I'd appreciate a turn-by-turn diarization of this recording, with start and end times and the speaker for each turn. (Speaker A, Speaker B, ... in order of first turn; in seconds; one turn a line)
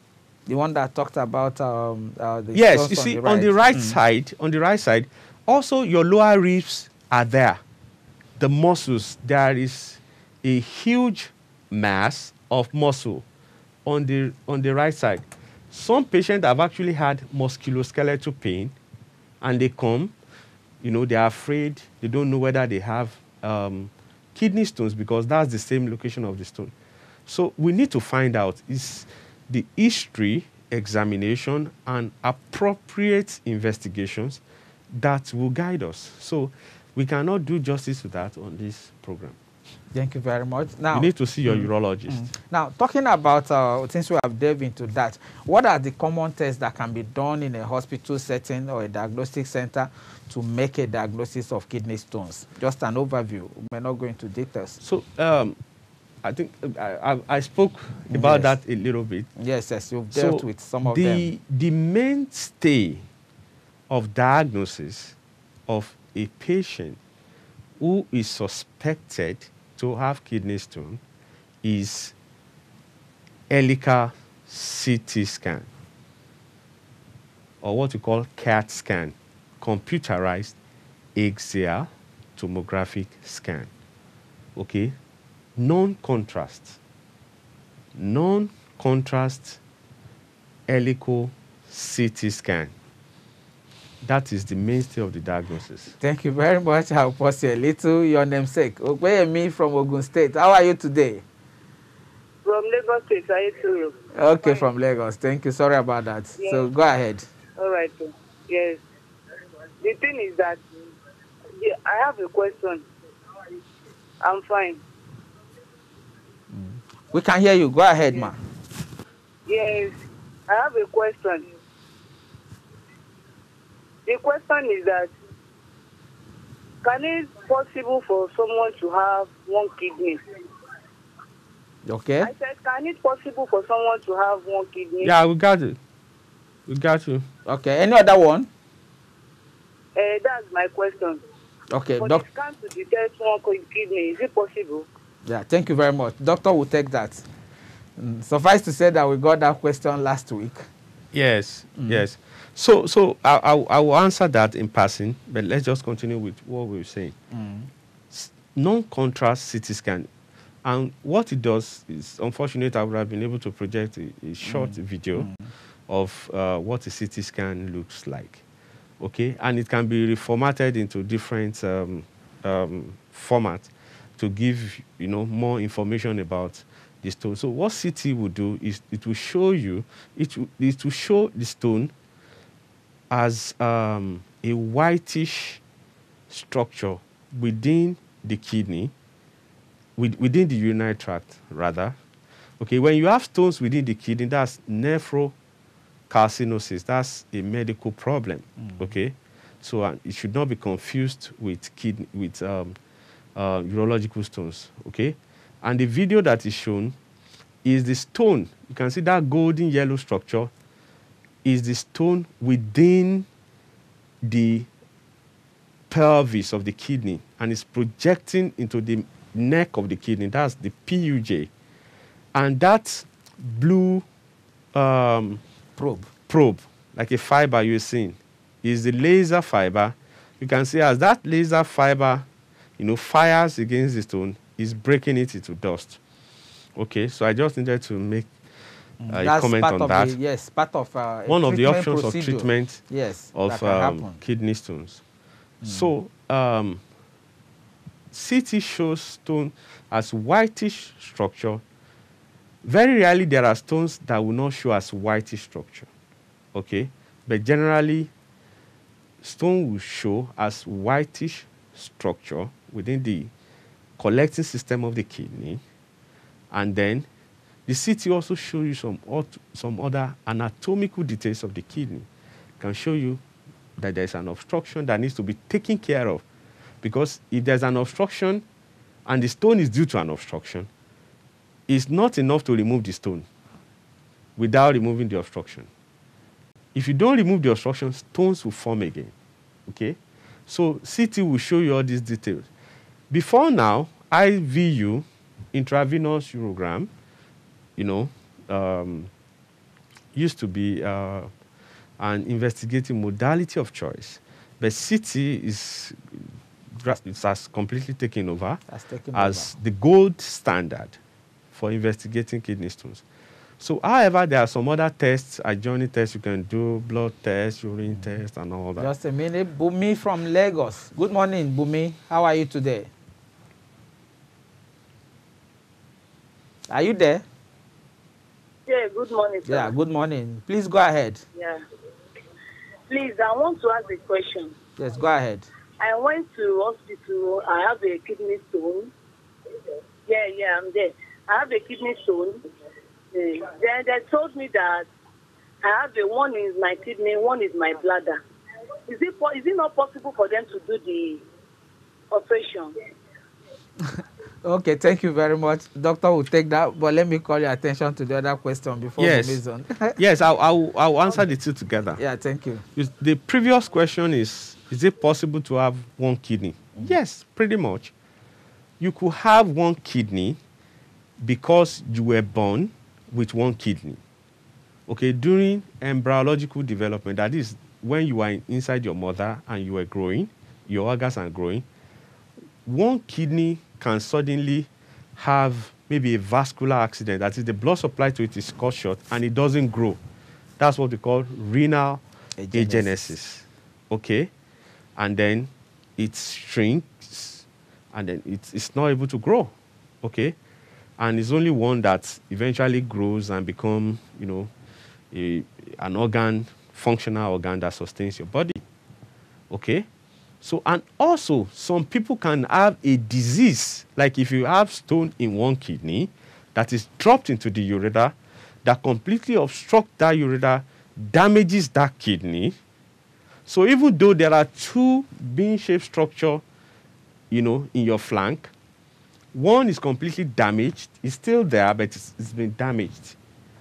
Speaker A: 0.5-4.0
Speaker B: 2.5-7.6
Speaker B: 8.4-13.2
Speaker B: 13.9-18.8
Speaker B: 19.4-20.1
Speaker B: 20.8-26.7
Speaker B: 27.3-39.4
Speaker A: 39.9-54.8
Speaker B: 40.9-42.2
Speaker B: 54.8-55.6
Speaker B: 56.2-59.3
Speaker A: 58.1-58.5
Speaker A: 59.4-61.3
Speaker B: 60.1-63.0
Speaker B: 63.9-67.0
Speaker B: 67.8-71.0
Speaker B: 71.6-72.2
Speaker B: 73.5-75.7
Speaker B: 77.6-80.6
Speaker B: 81.2-83.7
Speaker B: 84.6-85.0
Speaker B: 85.6-86.8
Speaker B: 88.0-89.6
Speaker B: 90.7-92.7
Speaker B: 94.0-95.9
Speaker A: 96.0-101.2
Speaker C: 102.4-104.6
Speaker A: 104.1-107.3
Speaker C: 106.4-106.7
Speaker C: 107.6-108.8
Speaker C: 109.8-110.6
Speaker C: 111.6-112.9
Speaker C: 114.2-114.8
Speaker A: 116.5-118.4
Speaker C: 119.5-120.0
Speaker C: 120.5-121.5
Speaker C: 124.1-125.1
Speaker C: 126.8-130.2
Speaker A: 131.9-132.3
Speaker C: 132.2-135.1
Speaker B: 135.0-135.8
Speaker B: 136.7-137.3
Speaker A: 137.5-138.5
Speaker C: 139.9-141.2
Speaker A: 141.7-142.2
Speaker C: 142.0-144.9
Speaker A: 145.3-147.3
Speaker A: 148.0-150.7
Speaker B: 151.1-157.2
Speaker A: 157.3-157.7
Speaker B: 158.1-160.1
Speaker B: 160.7-165.3
Speaker A: 164.4-165.5
Speaker B: 165.9-168.4
Speaker B: 169.0-181.9
Speaker B: 183.1-185.6
Speaker B: 186.3-188.9
Speaker B: 190.0-192.0
Speaker B: 192.6-195.3
Speaker B: 196.1-202.8
Speaker B: 203.4-207.0
Speaker B: 207.6-210.5
Speaker B: 211.4-213.3
Speaker B: 214.2-214.7
Speaker B: 215.9-221.5
Speaker B: 222.3-224.1
Speaker B: 224.7-225.4
Speaker A: 225.8-226.1
Speaker B: 226.3-232.3
Speaker B: 232.8-236.0
Speaker B: 236.8-238.3
Speaker A: 239.0-244.2
Speaker B: 239.1-240.2
Speaker B: 241.3-242.8
Speaker B: 243.3-245.0
Speaker A: 245.6-245.9
Speaker B: 245.7-246.8
Speaker B: 248.1-251.6
Speaker B: 252.6-255.9
Speaker B: 256.5-258.1
Speaker B: 259.2-263.3
Speaker B: 264.0-265.6
Speaker B: 266.5-267.1
Speaker B: 267.7-272.1
Speaker B: 272.6-273.2
Speaker B: 273.8-276.2
Speaker B: 276.8-278.4
Speaker B: 279.1-280.7
Speaker B: 281.7-283.3
Speaker B: 284.4-285.7
Speaker B: 286.8-289.1
Speaker B: 289.7-292.5
Speaker B: 293.1-296.9
Speaker B: 297.8-299.1
Speaker B: 300.1-301.3
Speaker B: 302.0-308.6
Speaker A: 308.7-309.5
Speaker B: 309.1-311.0
Speaker B: 311.5-313.0
Speaker B: 313.6-318.9
Speaker A: 318.8-322.9
Speaker A: 326.7-327.2
Speaker C: 328.7-329.7
Speaker A: 329.5-331.2
Speaker C: 331.4-331.6
Speaker C: 332.9-334.6
Speaker A: 334.8-335.5
Speaker C: 335.8-338.9
Speaker C: 340.1-342.4
Speaker C: 343.1-344.9
Speaker C: 345.6-348.2
Speaker C: 348.9-351.2
Speaker C: 352.1-352.7
Speaker A: 354.4-360.0
Speaker B: 359.0-359.4
Speaker B: 360.0-362.0
Speaker A: 362.0-362.6
Speaker B: 362.8-367.9
Speaker B: 368.8-370.4
Speaker B: 371.2-374.0
Speaker B: 374.9-381.7
Speaker B: 382.6-390.0
Speaker B: 390.6-394.3
Speaker A: 392.4-393.1
Speaker B: 395.0-400.4
Speaker B: 401.0-404.5
Speaker B: 405.1-408.6
Speaker B: 409.5-409.9
Speaker B: 410.4-422.6
Speaker B: 423.5-426.4
Speaker B: 427.3-428.5
Speaker B: 429.3-433.2